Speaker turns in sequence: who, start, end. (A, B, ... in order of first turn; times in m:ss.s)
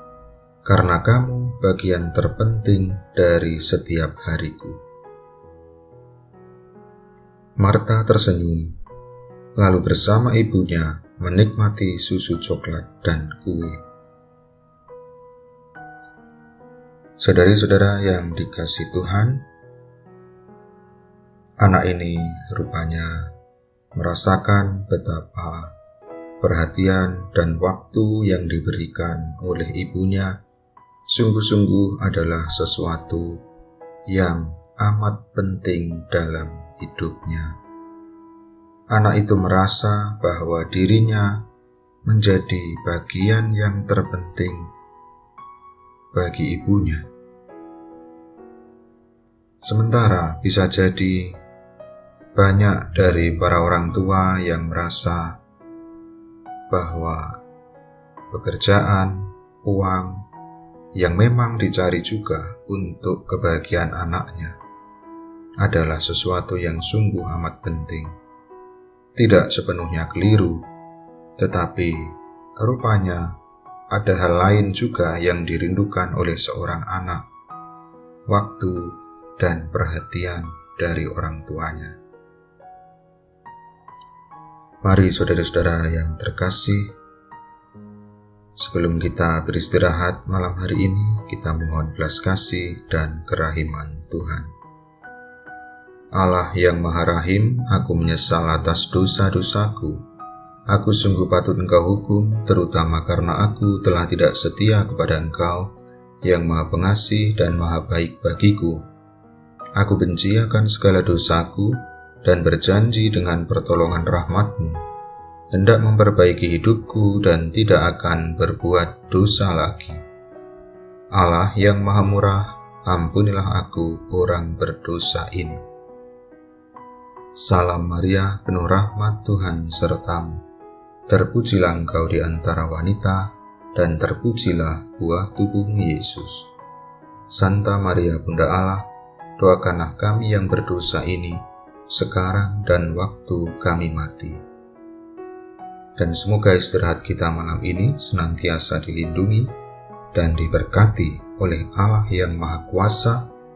0:00.6-0:04.8 A
0:07.6-0:08.7 A
0:09.6-0:13.8 A
0:17.2-0:19.4 A
0:21.6-0:23.3 A
0:24.0-0:25.7 A
0:26.4-0:30.4 A
0:31.1-0:33.4 A
0:34.1-0:37.6 A
0:38.9-0:41.4 A
0:42.0-0:44.7 A
0:46.1-0:47.1 A
0:49.6-0:51.4 A
0:52.4-0:55.4 A
0:56.7-0:57.4 A
0:58.3-1:00.2 A
1:01.0-1:04.6 A
1:05.6-1:08.1 A
1:09.2-1:10.6 A
1:11.4-1:13.4 A
1:13.9-1:17.3 A
1:18.3-1:22.0 A
1:24.8-1:26.9 A
1:28.6-1:34.5 A
1:36.1-1:40.0 A
1:40.7-1:45.7 A
1:46.2-1:48.8 A
1:49.8-1:54.8 A
1:55.5-2:00.0 A
2:01.1-2:05.6 A
2:07.4-2:10.4 A
2:11.1-2:16.5 A
2:17.3-2:24.4 A
2:26.0-2:29.5 A
2:30.1-2:33.3 A